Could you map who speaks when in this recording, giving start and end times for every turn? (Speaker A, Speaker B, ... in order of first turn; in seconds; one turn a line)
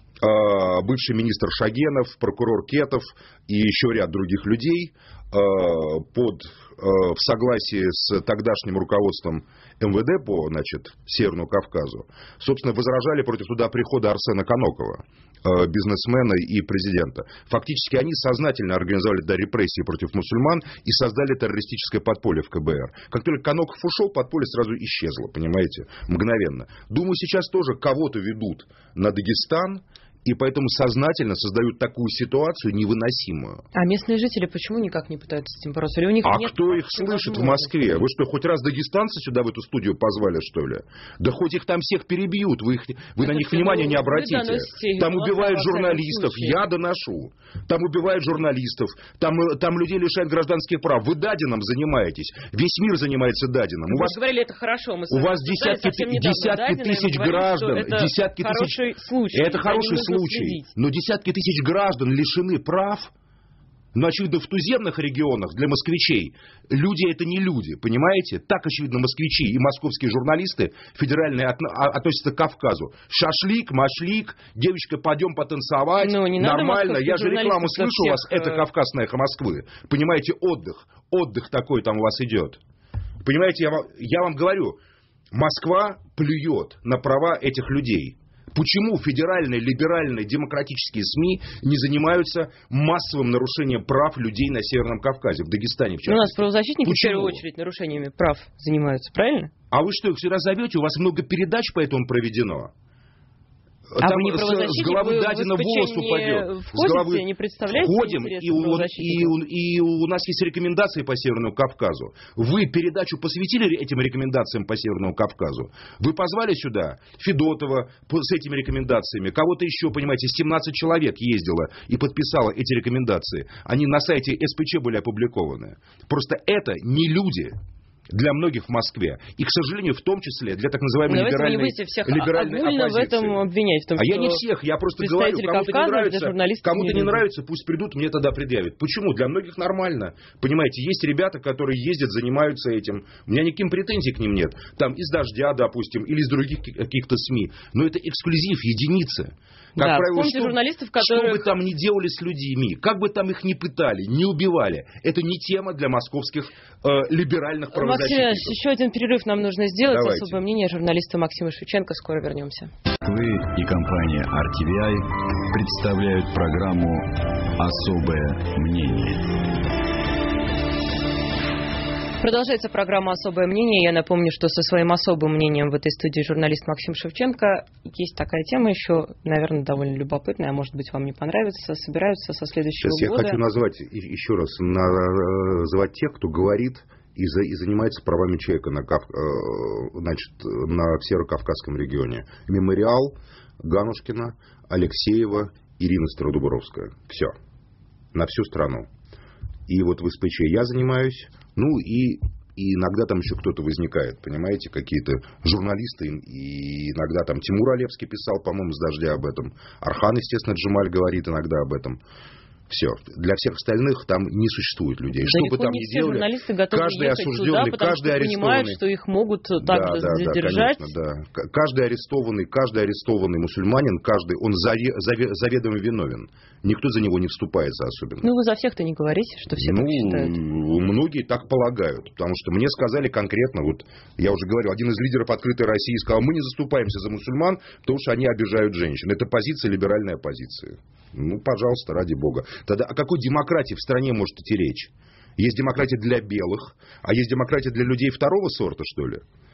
Speaker A: 0.2-33.6
Speaker B: 33.7-37.7
Speaker A: 36.2-54.2
Speaker B: 43.2-46.6
Speaker B: 53.9-60.7
Speaker A: 55.1-63.1
Speaker A: 63.9-82.6
Speaker B: 76.0-78.7
Speaker A: 83.2-84.8
Speaker A: 85.3-97.4
Speaker B: 96.0-99.5
Speaker A: 99.7-102.7
Speaker A: 103.9-127.6
Speaker B: 104.0-109.4
Speaker A: 128.1-133.4
Speaker B: 131.1-134.4
Speaker A: 134.0-158.6
Speaker B: 135.0-137.3
Speaker B: 149.8-151.5
Speaker B: 157.7-162.7
Speaker A: 159.8-160.4
Speaker C: 163.0-169.4
Speaker B: 172.2-183.4
Speaker A: 182.8-197.3
Speaker A: 198.1-198.9
Speaker A: 199.7-212.0
Speaker A: 212.7-218.8
Speaker B: 215.2-220.9
Speaker A: 219.6-228.3
Speaker B: 228.2-230.4
Speaker A: 229.6-249.2